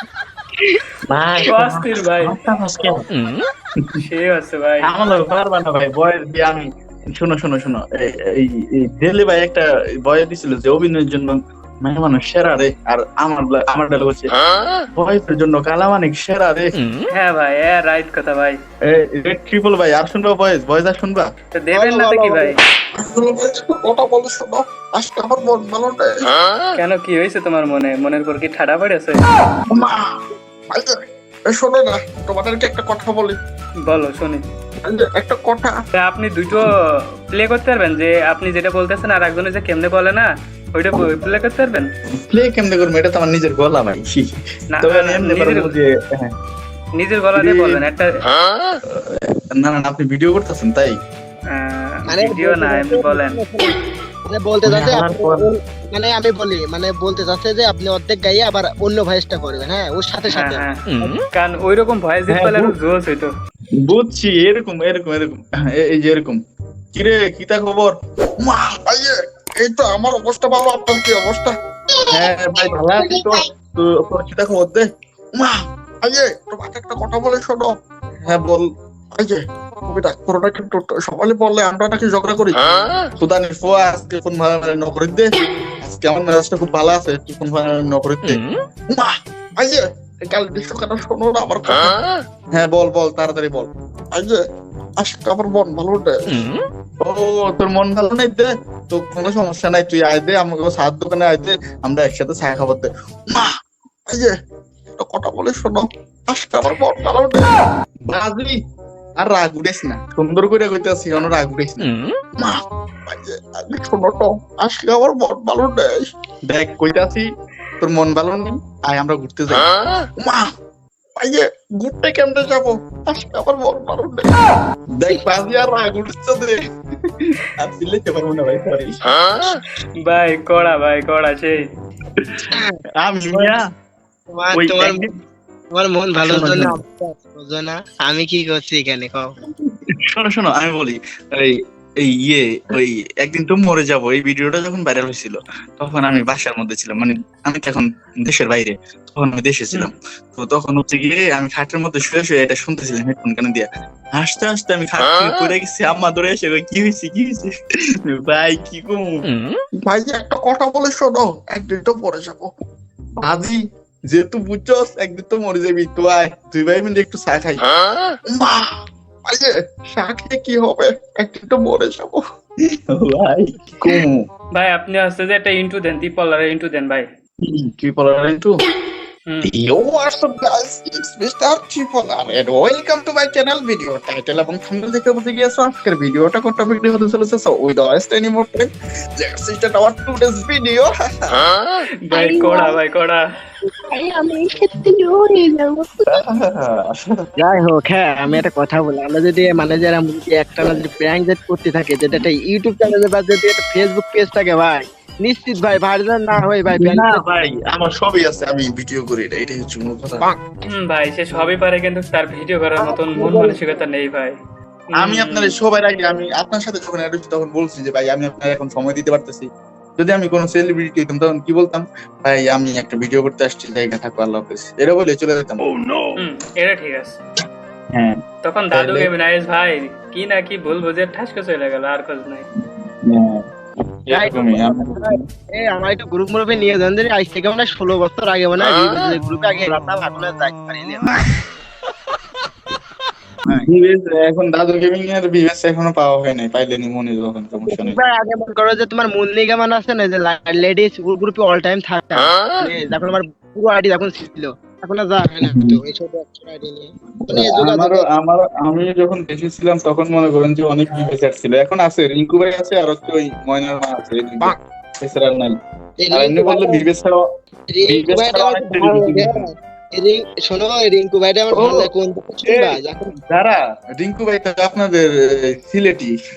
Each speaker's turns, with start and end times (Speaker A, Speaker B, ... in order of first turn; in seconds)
Speaker A: 1.1-1.8, 2.5-3.0, 54.6-55.5
Speaker B: 1.4-2.4, 4.0-4.9, 17.1-18.6, 21.6-22.6, 26.8-29.2, 33.9-34.4, 35.9-36.7, 37.3-41.9, 44.7-45.7, 47.0-48.1, 51.5-53.4, 60.3-63.3, 129.4-131.6, 174.5-177.1, 192.1-193.2, 210.7-214.3, 215.0-215.5, 226.2-227.2, 228.4-232.5
Speaker C: 2.3-3.0, 4.8-14.3, 15.0-16.8, 18.9-21.3, 23.0-26.1, 29.7-30.0, 30.7-31.0, 31.5-33.4, 34.8-35.8, 42.3-44.2, 44.8-46.3, 47.4-47.8, 48.9-51.0, 62.3-62.7, 63.9-66.4, 66.9-71.5, 72.1-77.8, 78.3-82.6, 83.2-85.3, 85.8-88.4, 88.9-92.0, 92.5-94.4, 95.0-96.4, 97.0-103.5, 105.0-107.4, 108.1-108.5, 109.2-111.9, 112.4-117.2, 117.8-119.7, 120.2-120.5, 121.2-124.3, 125.0-126.6, 127.2-129.0, 133.0-133.6, 134.5-135.1, 136.2-136.8, 140.1-157.5, 158.1-159.0, 159.8-162.5, 163.2-163.6, 164.1-167.7, 168.3-168.6, 169.2-172.2, 172.9-174.2, 177.4-178.5, 179.5-188.7, 189.2-191.4, 196.1-197.1, 206.7-210.3, 215.0-219.5, 220.0-225.6, 227.9-228.2, 228.7-229.1, 233.0-233.4, 234.1-235.1, 243.5-248.0, 255.4-255.8, 257.3-265.5, 266.1-267.1, 267.9-269.3, 271.5-271.9, 272.5-275.1, 275.7-276.1
Speaker D: 21.7-22.5, 52.1-60.6, 134.3-135.0, 135.7-139.3, 197.4-207.2, 212.8-213.8, 234.1-241.2, 247.7-258.1, 266.0-266.9, 267.7-273.1
Speaker E: 72.2-73.5, 192.1-192.8, 193.9-196.2